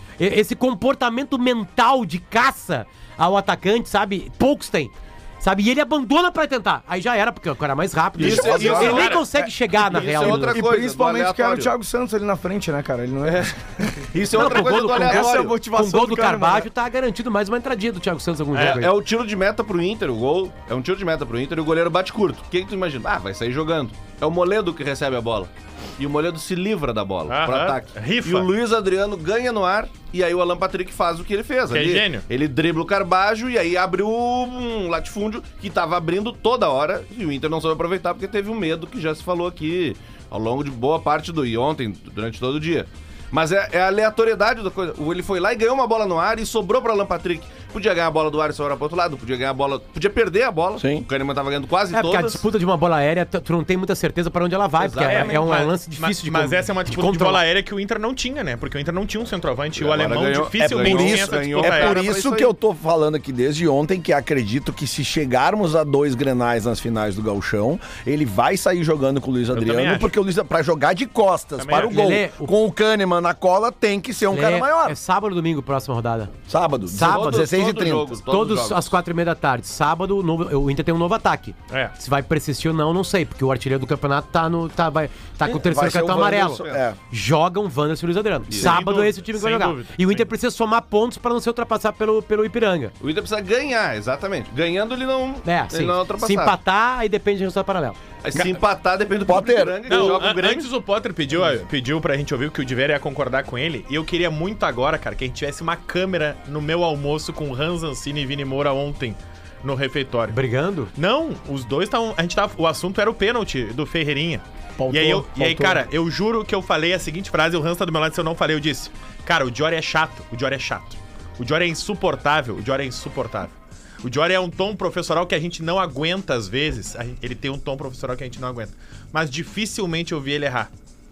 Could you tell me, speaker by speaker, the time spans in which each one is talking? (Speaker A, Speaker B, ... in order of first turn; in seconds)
Speaker A: 0.2-10.6, 14.3-18.9, 51.9-57.4, 71.8-72.5, 74.3-76.3, 76.9-77.5, 78.3-92.9, 95.4-98.0, 110.3-110.9
Speaker B: 8.2-9.2, 10.2-16.7, 114.8-115.8
Speaker C: 8.2-11.7, 13.2-15.6, 18.5-52.4, 54.8-55.4, 59.8-62.5, 77.0-78.9, 88.5-88.8, 93.0-96.5, 98.2-100.7
Speaker D: 8.7-9.2, 18.5-18.8, 27.3-28.5, 31.7-32.2, 55.0-62.0, 69.5-70.1, 71.6-72.0, 88.6-90.3, 99.9-110.3, 111.0-130.7
Speaker E: 50.8-51.0, 60.6-75.0, 76.5-78.2, 85.4-87.0, 99.2-100.2